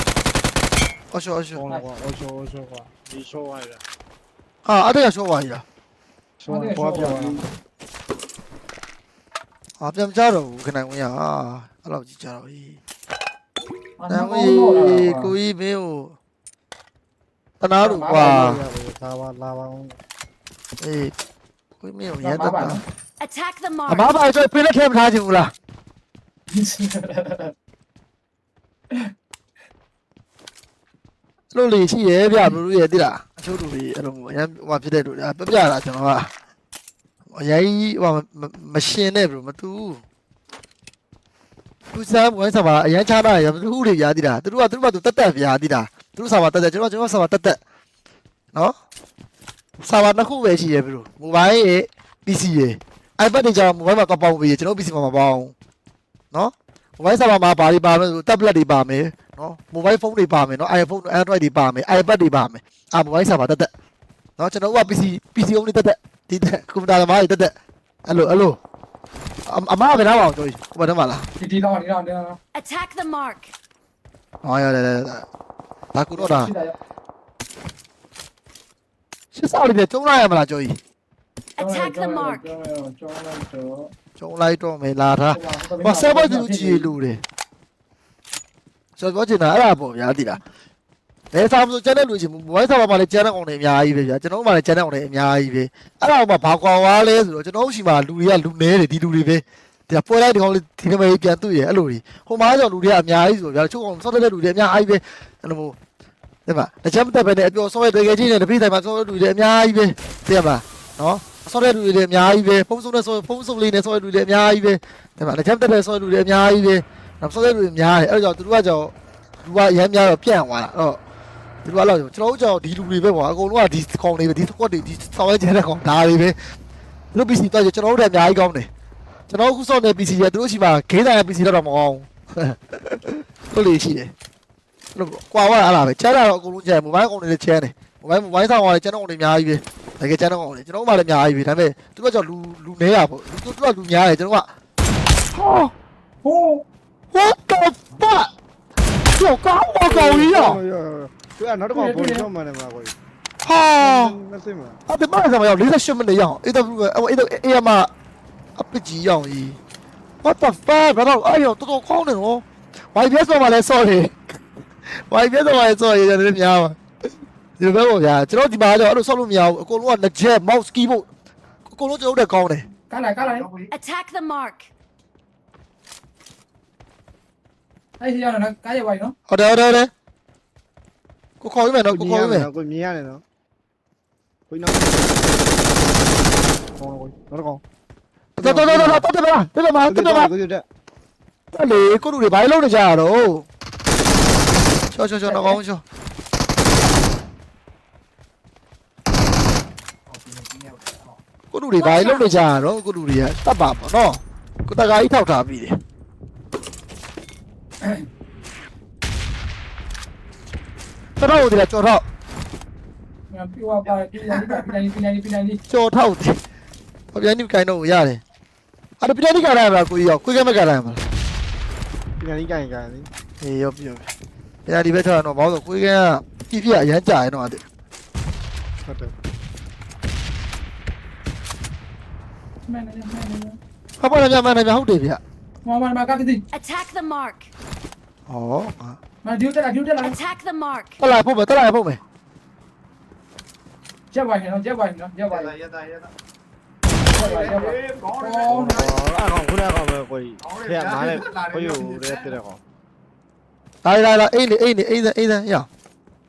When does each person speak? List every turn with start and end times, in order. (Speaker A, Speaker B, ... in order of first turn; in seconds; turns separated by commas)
Speaker A: 1.1-1.6, Speaker B: 1.6-3.8, Speaker A: 4.7-5.6, Speaker B: 6.4-7.5, Speaker C: 6.5-7.5, Speaker A: 9.8-12.8, Speaker C: 14.0-15.3, Speaker A: 14.1-16.1, Speaker A: 17.6-18.6, Speaker C: 17.9-18.2, Speaker B: 18.0-20.0, Speaker A: 20.8-21.1, Speaker A: 21.8-22.8, Speaker C: 22.2-22.8, Speaker D: 23.2-24.1, Speaker A: 23.9-25.5, Speaker C: 26.5-27.5, Speaker A: 31.5-36.3, Speaker A: 37.3-40.0, Speaker A: 41.9-47.6, Speaker A: 49.8-55.5, Speaker A: 56.3-63.7, Speaker A: 64.4-67.5, Speaker A: 68.1-68.6, Speaker A: 69.5-71.3, Speaker C: 71.4-72.4, Speaker D: 72.5-73.5, Speaker A: 74.4-75.3, Speaker A: 75.9-76.5, Speaker C: 76.2-76.8, Speaker A: 79.3-80.8, Speaker D: 81.6-82.5, Speaker C: 81.6-83.9, Speaker A: 84.2-87.2, Speaker C: 85.3-86.9, Speaker A: 89.0-90.4, Speaker A: 91.3-105.8, Speaker A: 106.5-118.9, Speaker A: 119.4-121.0, Speaker A: 121.6-126.4, Speaker A: 127.1-128.7, Speaker A: 129.3-134.1, Speaker A: 134.9-144.5, Speaker A: 145.3-145.7, Speaker C: 146.2-146.6, Speaker A: 147.1-148.3, Speaker A: 149.1-150.6, Speaker B: 149.9-152.9, Speaker C: 151.7-152.3, Speaker A: 153.4-154.2, Speaker B: 153.8-154.8, Speaker A: 154.9-157.9, Speaker A: 158.6-159.6, Speaker A: 160.2-166.8, Speaker A: 167.6-171.1, Speaker A: 171.7-172.7, Speaker C: 172.9-173.5, Speaker E: 173.2-173.7, Speaker D: 173.7-174.7, Speaker C: 178.0-179.2, Speaker A: 179.3-179.9, Speaker A: 181.4-182.5, Speaker B: 181.9-183.2, Speaker B: 184.5-185.2, Speaker B: 186.8-187.6, Speaker A: 188.4-190.3, Speaker B: 188.4-189.1, Speaker B: 189.9-190.7, Speaker A: 191.5-193.5, Speaker A: 194.9-195.8, Speaker C: 195.2-195.6, Speaker E: 200.2-201.0, Speaker A: 201.5-205.8, Speaker D: 201.8-202.3, Speaker A: 211.2-212.1, Speaker C: 213.3-215.6, Speaker A: 215.7-216.4, Speaker A: 217.1-218.2, Speaker A: 219.0-221.1, Speaker B: 222.2-223.1, Speaker A: 223.4-224.1, Speaker A: 224.7-227.6, Speaker B: 228.8-229.1, Speaker C: 232.7-233.6, Speaker A: 234.0-235.2, Speaker C: 235.7-236.4, Speaker D: 236.5-237.5, Speaker A: 238.3-239.0, Speaker C: 239.2-240.2, Speaker D: 240.0-241.0, Speaker A: 241.0-242.0, Speaker C: 244.1-245.5, Speaker E: 245.3-246.1, Speaker C: 247.0-249.0, Speaker E: 247.2-248.5, Speaker B: 248.5-252.6, Speaker E: 250.6-252.1, Speaker A: 253.8-255.7